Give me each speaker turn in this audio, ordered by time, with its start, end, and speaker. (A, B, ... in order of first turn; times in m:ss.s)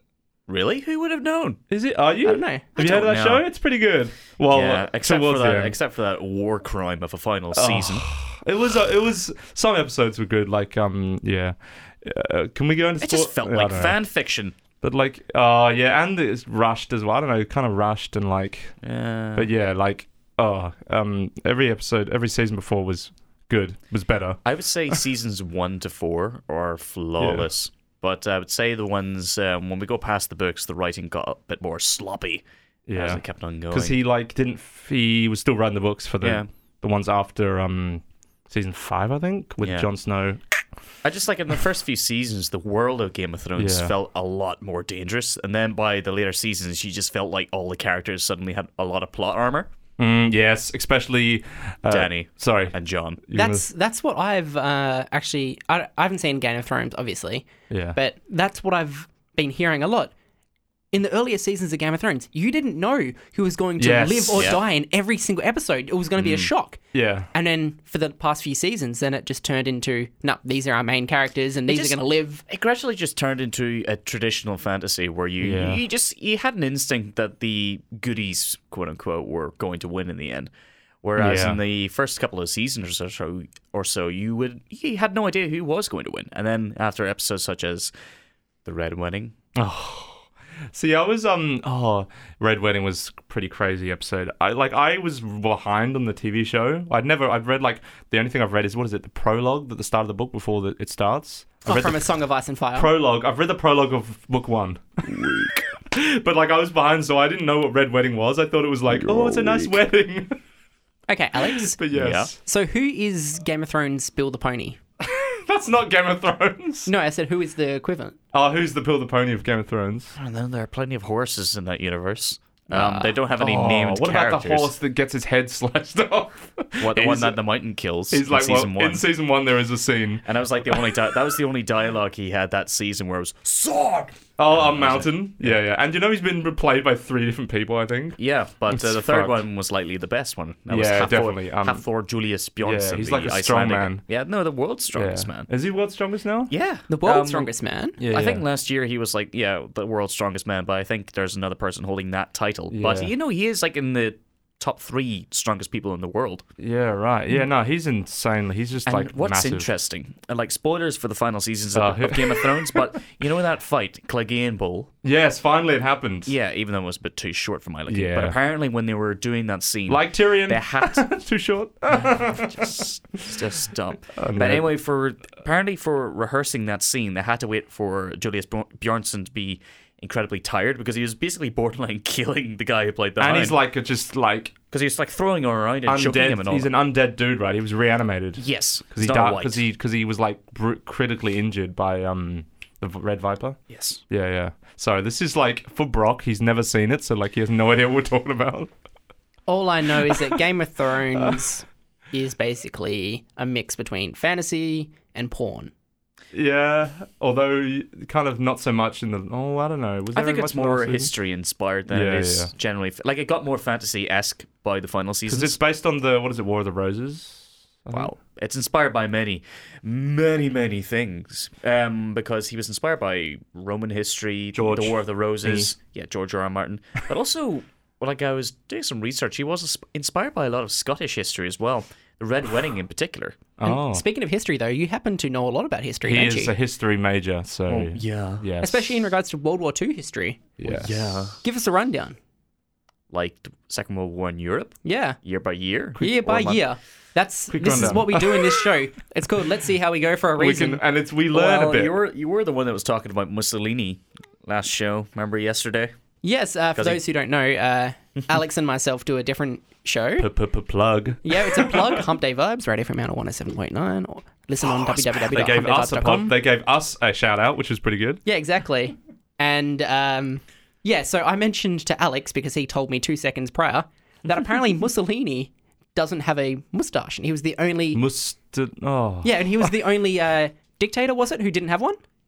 0:00.5-0:01.6 A
0:01.7-0:05.8 B
0:02.2-0:02.7 C
0:02.8-0:03.4 A
0:04.5-0:08.1 A
0:07.5-0:14.0 B
0:13.0-0:14.5 A
0:14.8-0:18.7 B
0:18.8-0:19.5 A
0:19.3-0:25.0 B
0:24.4-0:34.0 A
0:27.2-0:27.5 B
0:32.9-0:40.4 B
0:36.2-0:36.5 A
0:39.6-0:39.9 A
0:41.0-0:49.7 A
0:43.6-0:43.9 B
0:50.0-0:53.7 B
0:51.9-0:53.2 A
0:53.3-1:00.1 C
0:57.7-0:58.0 B
1:00.9-1:06.8 C
1:03.8-1:04.5 B
1:06.2-1:06.5 A
1:06.9-1:07.3 B
1:07.3-1:12.4 C
1:11.7-1:20.5 A
1:15.4-1:15.8 B
1:21.0-1:27.9 A
1:21.2-1:21.6 B
1:28.6-1:29.3 A
1:29.5-1:42.1 B
1:41.6-1:42.9 C
1:42.7-1:50.4 B
1:45.2-1:45.5 A
1:49.0-1:49.6 A
1:51.1-1:51.8 C
1:51.5-1:52.4 B
1:51.9-1:52.3 A
1:52.4-1:54.8 C
1:55.0-1:56.9 B
1:56.8-1:58.2 C
1:58.3-2:00.1 B
2:00.2-2:04.7 A
2:02.7-2:03.1 C
2:03.4-2:07.4 B
2:06.8-2:09.0 A
2:08.1-2:10.8 B
2:10.2-2:15.5 A
2:14.4-2:18.2 B
2:18.2-2:25.5 A
2:18.7-2:19.4 B
2:20.7-2:21.8 B
2:22.6-2:24.0 B
2:24.9-2:26.5 B
2:26.5-2:27.5 A
2:26.9-2:28.0 C
2:28.0-2:28.4 B
2:28.0-2:36.4 A
2:32.7-2:33.1 B
2:36.6-2:39.7 B
2:38.9-2:44.9 A
2:41.7-2:43.0 B
2:45.0-2:46.3 B
2:46.2-2:51.0 A
2:47.9-2:48.4 B
2:49.9-2:52.8 B
2:52.4-3:03.6 A
2:54.2-2:54.7 B
3:03.2-3:04.5 B
3:04.7-3:06.7 A
3:05.9-3:18.7 B
3:08.4-3:09.6 A
3:13.7-3:14.0 A
3:19.5-3:25.7 C
3:20.1-3:20.3 B
3:21.1-3:21.4 B
3:26.3-3:31.1 B
3:30.1-3:35.6 A
3:31.9-3:32.5 B
3:35.3-3:38.1 B
3:37.9-3:53.4 A
3:44.6-3:45.7 B
3:53.6-3:54.0 B
3:53.6-3:56.5 C
3:56.0-3:58.9 B
3:57.7-3:58.4 A
3:58.6-4:00.5 C
4:00.6-4:01.2 B
4:00.6-4:01.4 A
4:01.4-4:02.2 C
4:03.1-4:06.6 A
4:04.8-4:05.2 C
4:06.0-4:10.8 C
4:07.5-4:08.6 B
4:07.6-4:08.0 A
4:10.4-4:11.9 B
4:11.3-4:15.9 A
4:16.2-4:20.3 C
4:16.7-4:17.0 A
4:20.2-4:22.0 B
4:21.2-4:26.3 C
4:24.6-4:28.2 B
4:28.2-4:38.0 C
4:37.9-4:39.7 B
4:39.2-4:42.0 C